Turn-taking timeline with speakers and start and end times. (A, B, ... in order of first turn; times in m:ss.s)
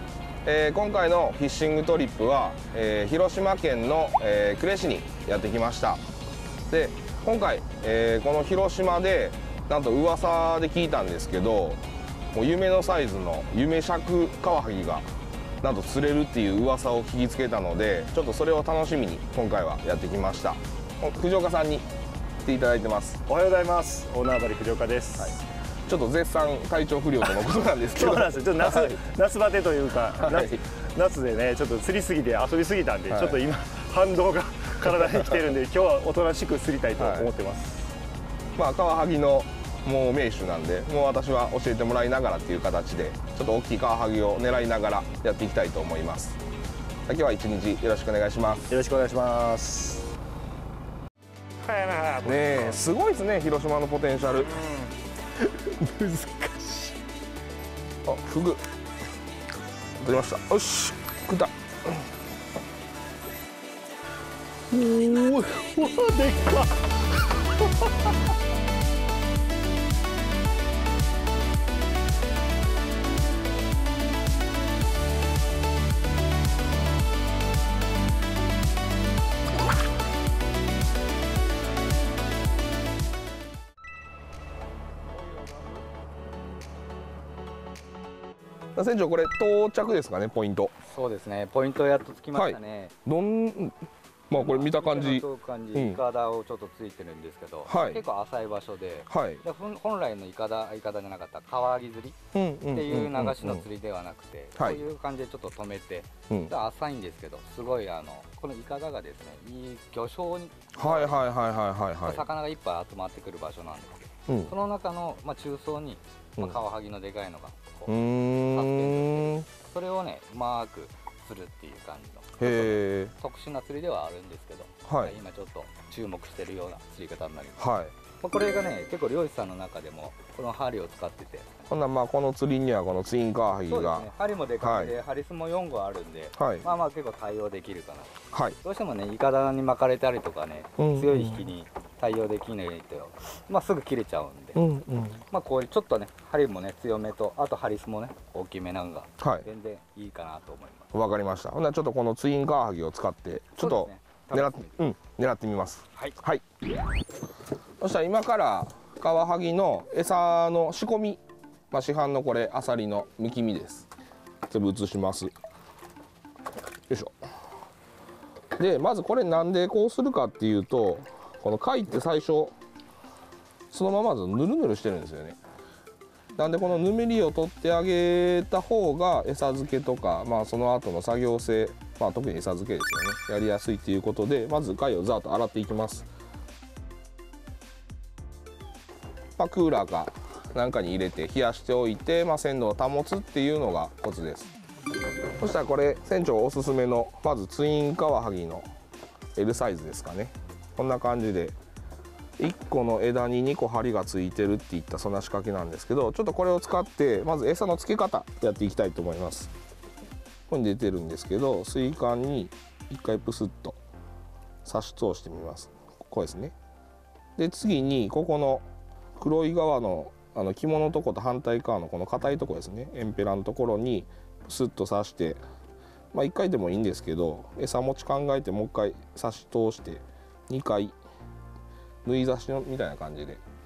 0:00.4-0:06.0 A
0:06.7-0:15.1 A
0:15.6-0:21.8 A
0:22.4-0:23.2 A
0:23.3-0:25.4 B
0:25.9-0:29.0 A
0:27.9-0:37.9 B
0:30.2-0:30.6 A
0:33.1-0:33.4 A
0:37.0-0:37.3 A
0:38.6-0:46.4 A
0:47.1-0:48.7 A
0:48.7-0:50.0 B
0:51.6-0:52.8 B
0:52.2-0:54.6 A
0:54.5-0:57.0 B
0:58.0-0:58.6 A
1:00.0-1:02.0 A
1:04.7-1:08.3 B
1:28.8-1:30.7 A
1:30.9-1:32.9 C
1:32.3-1:33.8 A
1:34.3-1:36.0 A
1:34.3-1:42.2 C
1:37.6-1:38.0 A
1:39.1-1:39.4 A
1:42.3-1:43.6 A
1:42.7-1:51.2 C
1:50.8-1:52.2 A
1:52.0-1:57.9 C
1:57.9-1:59.5 A
1:58.5-2:07.7 C
2:02.4-2:03.1 A
2:04.9-2:05.1 A
2:07.6-2:07.9 A
2:08.2-2:11.6 C
2:11.7-2:14.1 A
2:13.7-2:24.6 C
2:14.6-2:14.9 A
2:16.4-2:16.6 A
2:18.3-2:18.6 A
2:20.8-2:21.5 A
2:24.5-2:25.2 A
2:25.3-2:30.9 C
2:29.2-2:29.4 A
2:30.9-2:36.4 A
2:33.6-2:34.7 C
2:37.8-2:41.2 A
2:41.7-2:43.9 A
2:44.5-2:45.3 A
2:46.9-2:47.1 A
2:48.6-2:52.5 A
2:53.7-2:55.4 A
2:56.4-3:06.1 A
3:09.4-3:14.5 A
3:15.4-3:18.7 A
3:19.4-3:21.6 A
3:22.4-3:29.5 A
3:30.5-3:33.8 A
3:34.6-3:36.5 A
3:37.4-3:38.6 A
3:39.2-3:45.4 A
3:46.1-3:51.0 A
3:52.0-3:53.4 A